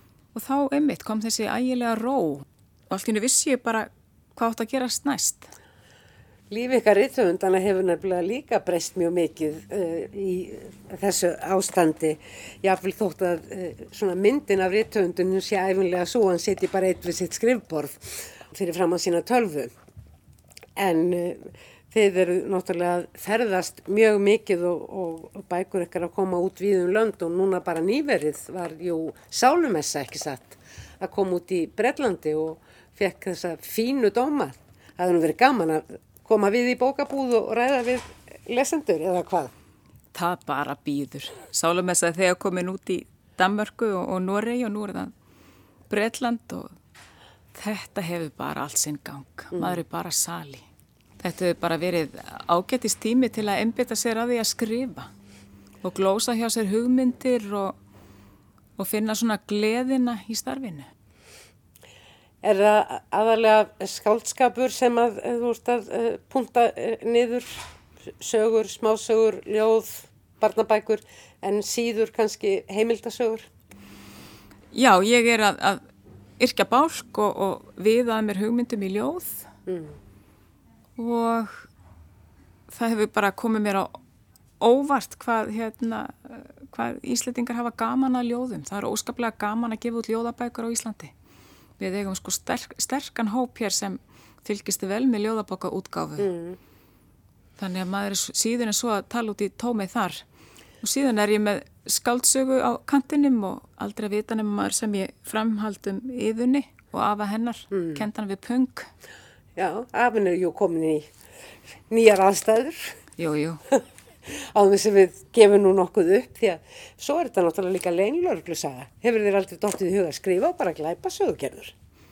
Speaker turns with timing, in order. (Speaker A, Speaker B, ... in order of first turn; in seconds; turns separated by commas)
Speaker A: 0.3-5.5, Speaker B: 6.5-19.7, Speaker B: 20.8-39.5, Speaker A: 40.1-45.1, Speaker A: 45.9-46.7, Speaker A: 47.5-50.7, Speaker B: 49.5-49.8, Speaker A: 51.2-55.1, Speaker A: 55.8-57.8, Speaker A: 58.8-60.9, Speaker B: 62.4-73.5, Speaker A: 74.7-75.8, Speaker A: 76.4-79.5, Speaker B: 79.7-80.0, Speaker A: 81.0-81.7, Speaker A: 82.7-84.0, Speaker A: 84.6-91.1, Speaker A: 91.8-96.3, Speaker B: 96.2-96.6, Speaker A: 97.6-100.2, Speaker A: 100.8-108.9, Speaker B: 107.7-108.0, Speaker B: 109.6-111.1, Speaker B: 111.9-113.0, Speaker A: 113.2-113.6, Speaker B: 113.7-121.7